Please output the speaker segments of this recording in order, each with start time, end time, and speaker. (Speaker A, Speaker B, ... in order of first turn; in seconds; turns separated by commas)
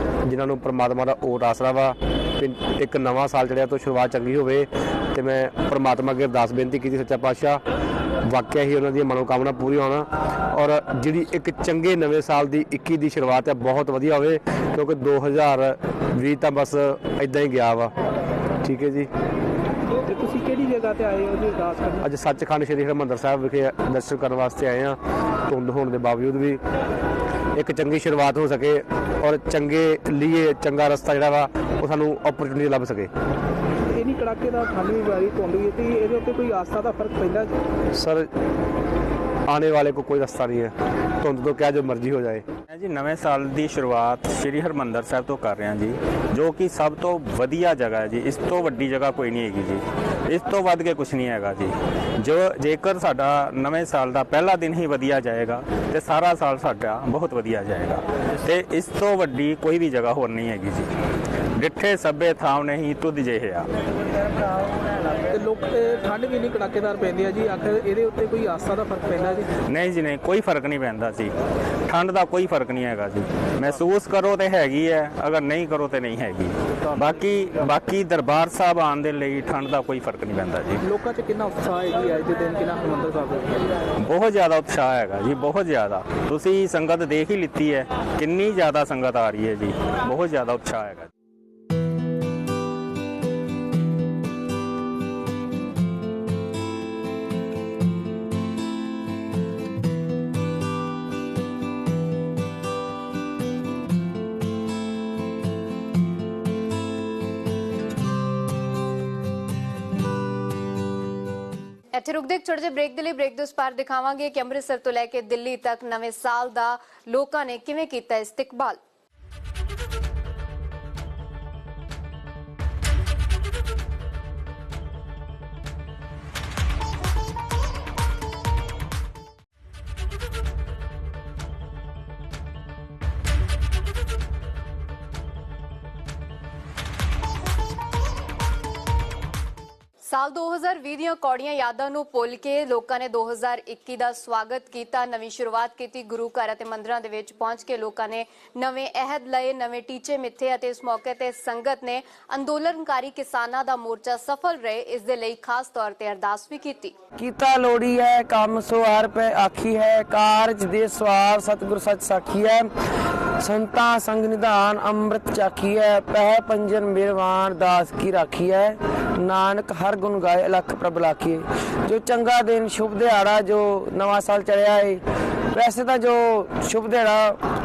Speaker A: 0.2-7.6, Speaker A: 8.3-17.9, Speaker A: 18.6-19.1, Speaker B: 20.1-22.0, Speaker A: 22.1-26.6, Speaker A: 27.6-33.1, Speaker B: 34.0-37.5, Speaker A: 38.0-38.3, Speaker A: 39.5-42.5, Speaker C: 42.7-60.9, Speaker C: 61.6-63.7, Speaker B: 65.3-69.5, Speaker C: 69.7-71.3, Speaker C: 71.8-80.8, Speaker B: 80.8-83.6, Speaker C: 84.0-91.1, Speaker D: 111.9-118.8, Speaker D: 140.0-156.9, Speaker E: 157.2-162.7, Speaker E: 163.4-175.0, Speaker E: 175.5-177.4